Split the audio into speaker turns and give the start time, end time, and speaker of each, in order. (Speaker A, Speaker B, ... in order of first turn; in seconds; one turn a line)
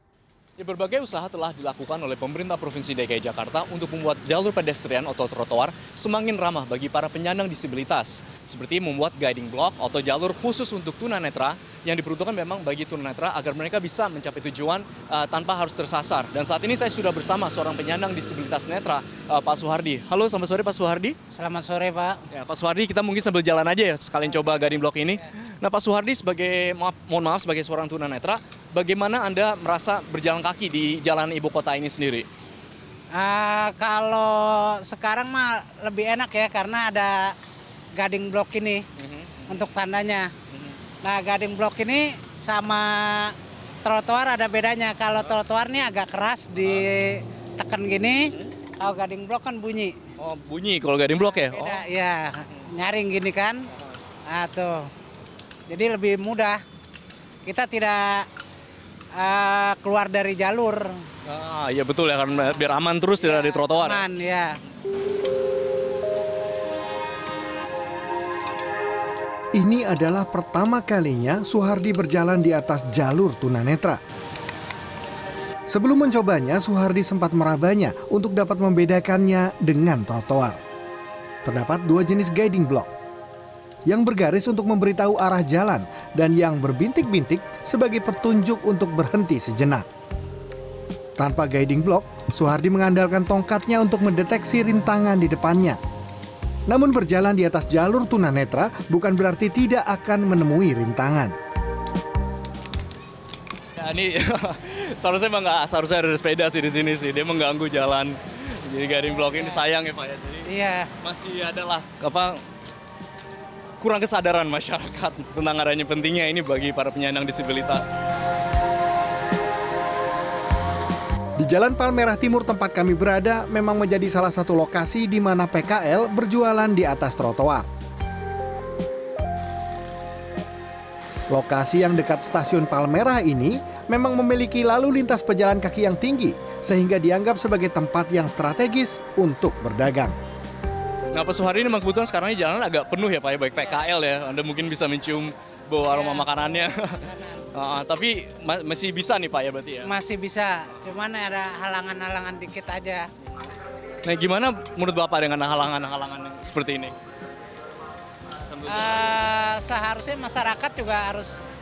Speaker A: 0.6-21.1
Speaker B: 21.3-22.2
Speaker A: 22.3-32.3
Speaker B: 24.2-25.1
Speaker B: 33.1-37.3
Speaker B: 38.0-38.8
Speaker A: 39.0-39.7
Speaker B: 39.5-40.3
Speaker A: 40.5-40.8
Speaker B: 41.0-48.2
Speaker A: 46.6-46.9
Speaker B: 48.8-50.0
Speaker A: 50.2-51.8
Speaker B: 51.2-53.6
Speaker B: 54.3-54.8
Speaker B: 55.7-56.6
Speaker B: 57.5-58.3
Speaker B: 59.2-60.8
Speaker A: 61.2-64.1
Speaker B: 63.2-64.5
Speaker C: 69.5-74.0
Speaker C: 75.7-80.6
Speaker C: 81.5-82.9
Speaker C: 83.9-89.9
Speaker C: 91.2-95.8
Speaker C: 96.7-101.4
Speaker A: 103.8-112.4
Speaker B: 109.3-109.6
Speaker B: 110.5-110.9
Speaker A: 113.8-117.9
Speaker C: 121.4-127.7
Speaker C: 131.3-140.1
Speaker A: 141.1-149.9
Speaker B: 145.9-146.3
Speaker B: 147.0-147.4
Speaker B: 149.8-153.0
Speaker A: 154.0-156.9
Speaker A: 158.4-159.2
Speaker B: 158.7-161.3